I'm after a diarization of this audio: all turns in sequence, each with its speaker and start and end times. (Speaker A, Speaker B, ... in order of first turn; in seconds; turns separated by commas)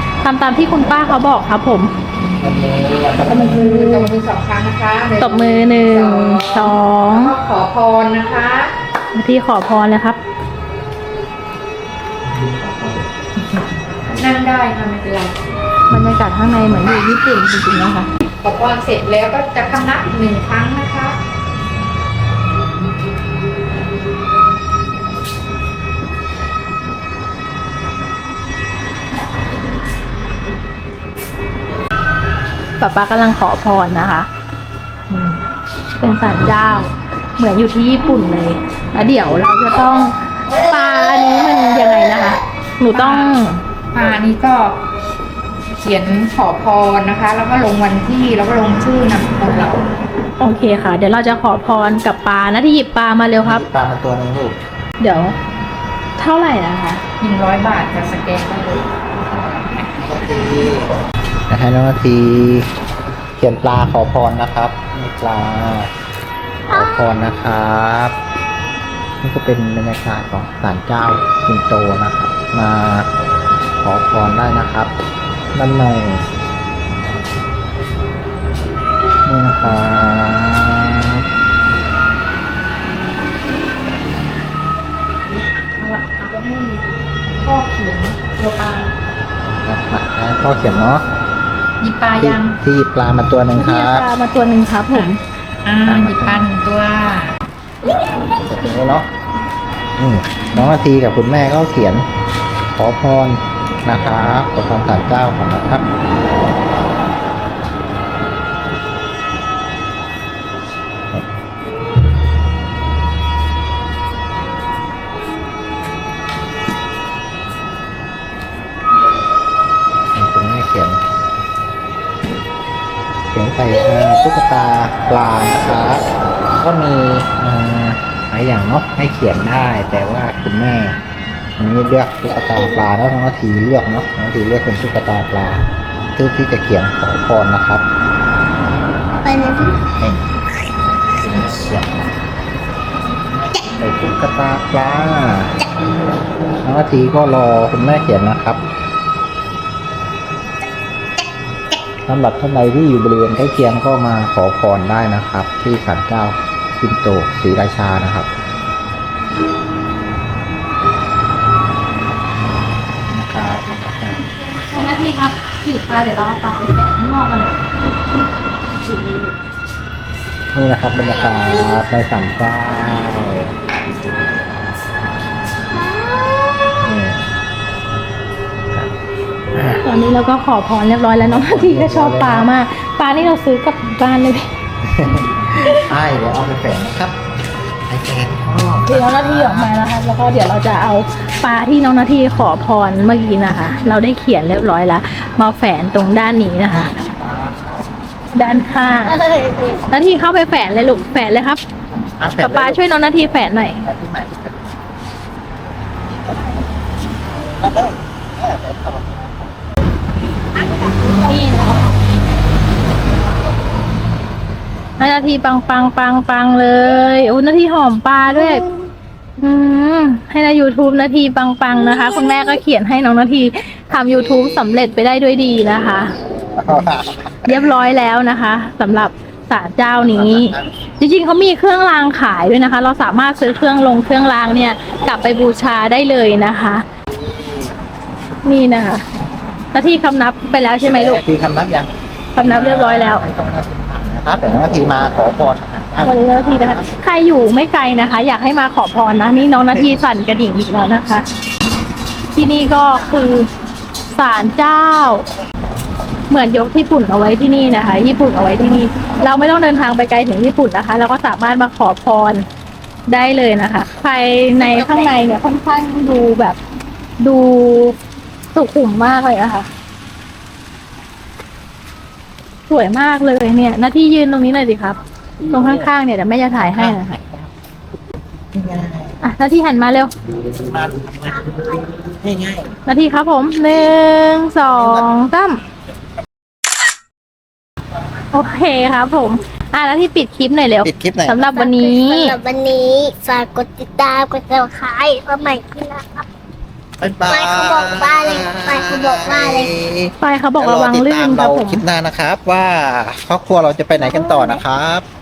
Speaker A: 0.2-1.9, Speaker B: 2.4-3.6, Speaker A: 3.3-4.1, Speaker C: 3.3-8.7, Speaker A: 5.2-7.3, Speaker A: 9.1-10.2, Speaker B: 12.2-13.1, Speaker C: 14.1-15.4, Speaker A: 15.9-18.1, Speaker C: 18.4-21.2, Speaker A: 32.8-34.3, Speaker A: 35.1-35.4, Speaker A: 36.0-43.6, Speaker B: 39.0-39.4, Speaker C: 42.9-43.4, Speaker C: 43.9-44.8, Speaker C: 45.8-49.9, Speaker A: 50.4-53.6, Speaker B: 53.4-54.6, Speaker A: 55.0-55.4, Speaker A: 56.2-57.0, Speaker C: 57.2-58.9, Speaker B: 59.2-60.9, Speaker B: 61.5-62.7, Speaker B: 63.4-65.9, Speaker D: 66.7-67.2, Speaker B: 66.7-68.2, Speaker B: 69.2-73.1, Speaker B: 73.8-74.9, Speaker B: 75.5-76.2, Speaker B: 79.2-81.2, Speaker C: 85.4-88.9, Speaker B: 89.4-91.0, Speaker C: 91.8-92.5, Speaker B: 92.2-94.1, Speaker A: 93.5-95.2, Speaker C: 94.9-97.3, Speaker B: 95.8-96.5, Speaker B: 98.3-99.1, Speaker B: 100.0-102.1, Speaker B: 102.7-105.9, Speaker B: 120.1-121.0, Speaker B: 123.3-126.0, Speaker B: 126.6-131.0, Speaker B: 131.6-137.8, Speaker D: 139.2-140.1, Speaker B: 141.1-142.1, Speaker B: 143.6-145.6, Speaker B: 146.6-148.6, Speaker B: 152.1-158.3, Speaker B: 163.1-164.2, Speaker A: 164.4-167.6, Speaker A: 168.8-169.3, Speaker B: 170.5-173.6, Speaker B: 176.8-177.3, Speaker B: 179.5-179.8, Speaker A: 179.8-184.5, Speaker B: 181.3-182.5, Speaker B: 184.8-187.2, Speaker A: 185.5-185.8, Speaker B: 187.9-189.7, Speaker A: 188.8-197.0, Speaker B: 196.7-197.8, Speaker A: 198.3-199.2, Speaker D: 199.2-199.8, Speaker A: 199.8-201.6, Speaker B: 202.2-202.8, Speaker A: 202.3-203.8, Speaker B: 203.8-204.8, Speaker B: 205.8-206.7, Speaker B: 207.3-209.4, Speaker A: 210.9-211.9, Speaker A: 215.0-218.6, Speaker A: 219.4-226.1, Speaker B: 223.9-224.7, Speaker B: 226.2-227.9, Speaker A: 227.4-236.8, Speaker B: 229.9-230.7, Speaker B: 237.1-237.7, Speaker A: 238.4-239.0, Speaker A: 239.7-241.2, Speaker B: 240.8-247.0, Speaker A: 242.3-243.2, Speaker A: 246.0-251.2, Speaker A: 252.3-253.5, Speaker A: 254.1-255.2, Speaker A: 256.3-262.4, Speaker A: 263.1-266.6, Speaker A: 267.2-268.0, Speaker A: 268.5-269.7, Speaker A: 272.7-277.2, Speaker B: 275.4-275.9, Speaker B: 276.5-277.5, Speaker B: 278.5-279.2, Speaker A: 279.2-280.1, Speaker B: 280.3-282.7, Speaker A: 282.9-285.6, Speaker B: 284.7-285.1, Speaker A: 288.3-292.3, Speaker B: 290.8-291.4, Speaker D: 291.5-296.3, Speaker B: 297.0-305.0, Speaker D: 297.3-299.7, Speaker A: 300.2-301.8, Speaker D: 304.2-304.5